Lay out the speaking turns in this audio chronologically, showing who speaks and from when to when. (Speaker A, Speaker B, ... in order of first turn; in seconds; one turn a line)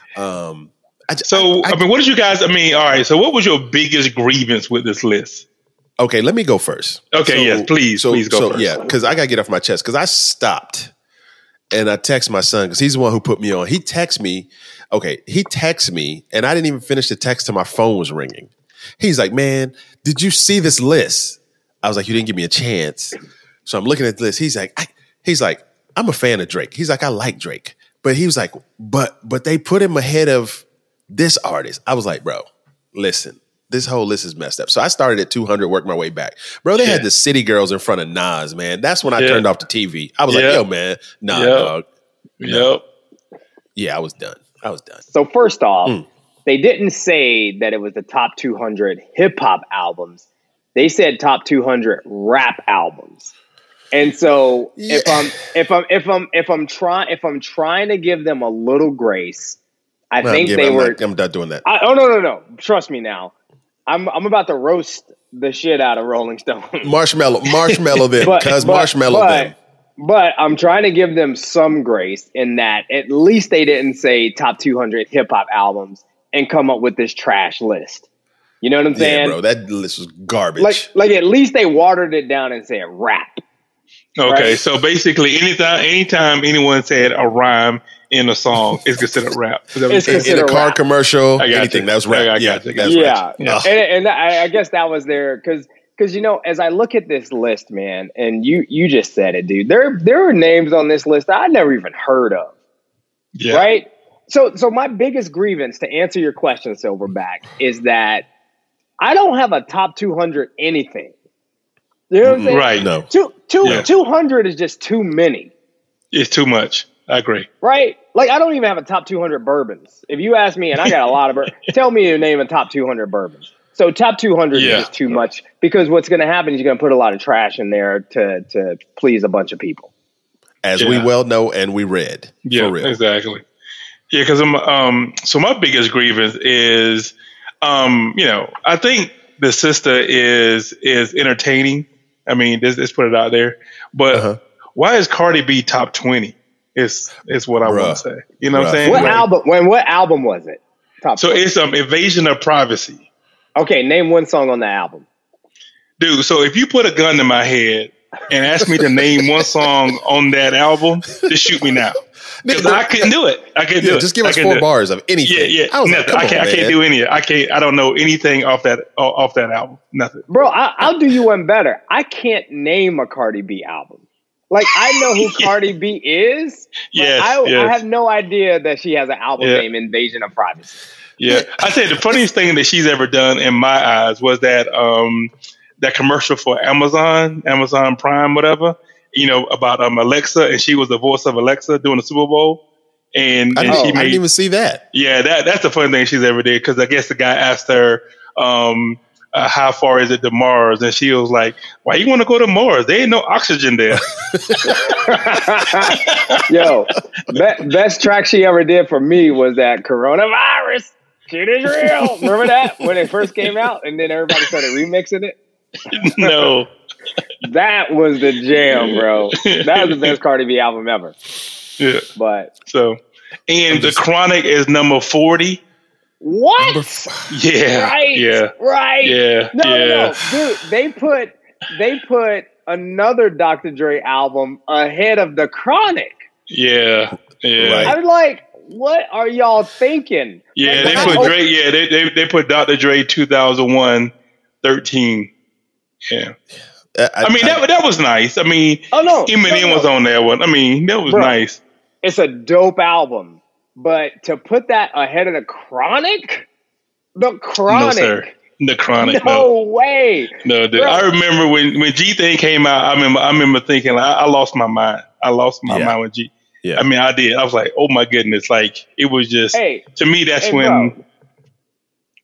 Speaker A: 0.1-1.8
Speaker B: 1.3-5.5
Speaker A: 6.0-10.9
Speaker B: 7.1-8.8
Speaker A: 11.7-41.8
Speaker B: 36.8-37.0
Speaker B: 39.2-39.4
Speaker B: 40.3-40.6
Speaker B: 41.3-41.7
Speaker B: 42.4-42.8
Speaker A: 43.8-45.0
Speaker C: 45.1-53.3
Speaker C: 53.9-59.6
Speaker A: 54.8-55.3
Speaker C: 60.1-61.0
Speaker A: 60.2-61.6
Speaker C: 61.6-63.3
Speaker C: 63.9-66.9
Speaker A: 66.8-69.5
Speaker B: 67.7-68.0
Speaker C: 68.2-78.0
Speaker C: 78.6-79.4
Speaker A: 78.9-80.9
Speaker C: 80.6-83.4
Speaker B: 84.2-90.4
Speaker C: 84.2-84.6
Speaker C: 89.9-90.8
Speaker A: 90.0-93.7
Speaker B: 91.4-93.6
Speaker C: 92.8-102.5
Speaker B: 103.3-103.6
Speaker C: 103.5-108.3
Speaker C: 109.0-111.1
Speaker C: 112.1-115.5
Speaker A: 112.2-113.1
Speaker B: 112.5-112.9
Speaker B: 113.6-113.9
Speaker B: 116.1-117.5
Speaker C: 117.6-129.9
Speaker B: 124.5-124.9
Speaker A: 130.6-132.9
Speaker B: 130.8-131.1
Speaker B: 132.4-133.4
Speaker B: 134.1-149.2
Speaker A: 144.1-144.4
Speaker A: 147.6-148.0
Speaker A: 148.5-149.2
Speaker C: 148.8-151.4
Speaker B: 151.2-153.0
Speaker C: 153.6-155.1
Speaker B: 156.0-164.6
Speaker A: 162.4-163.1
Speaker A: 163.8-166.8
Speaker B: 165.2-170.3
Speaker C: 170.3-180.8
Speaker B: 174.9-175.5
Speaker B: 176.9-177.8
Speaker B: 181.2-192.6
Speaker A: 181.3-182.2
Speaker B: 193.1-194.2
Speaker A: 193.5-194.8
Speaker C: 193.7-194.0
Speaker B: 194.9-204.0
Speaker A: 203.9-204.7
Speaker C: 204.7-215.4
Speaker B: 205.9-206.4
Speaker B: 215.9-216.7
Speaker C: 217.4-221.1
Speaker B: 218.6-220.2
Speaker B: 221.8-222.0
Speaker C: 222.2-222.5
Speaker B: 222.7-225.6
Speaker A: 223.7-224.0
Speaker C: 226.2-236.2
Speaker A: 226.6-227.3
Speaker B: 227.3-228.5
Speaker B: 229.0-230.5
Speaker B: 236.5-237.9
Speaker A: 237.6-237.9
Speaker C: 237.8-241.3
Speaker B: 240.6-245.3
Speaker A: 240.8-241.3
Speaker B: 246.1-246.3
Speaker A: 246.9-247.6
Speaker B: 247.2-251.6
Speaker C: 248.9-249.9
Speaker C: 251.1-251.3
Speaker C: 252.0-256.5
Speaker C: 257.1-258.3
Speaker B: 257.7-259.5
Speaker C: 259.0-261.1
Speaker B: 260.4-270.9
Speaker A: 265.6-265.9
Speaker C: 269.5-269.8
Speaker C: 270.4-271.0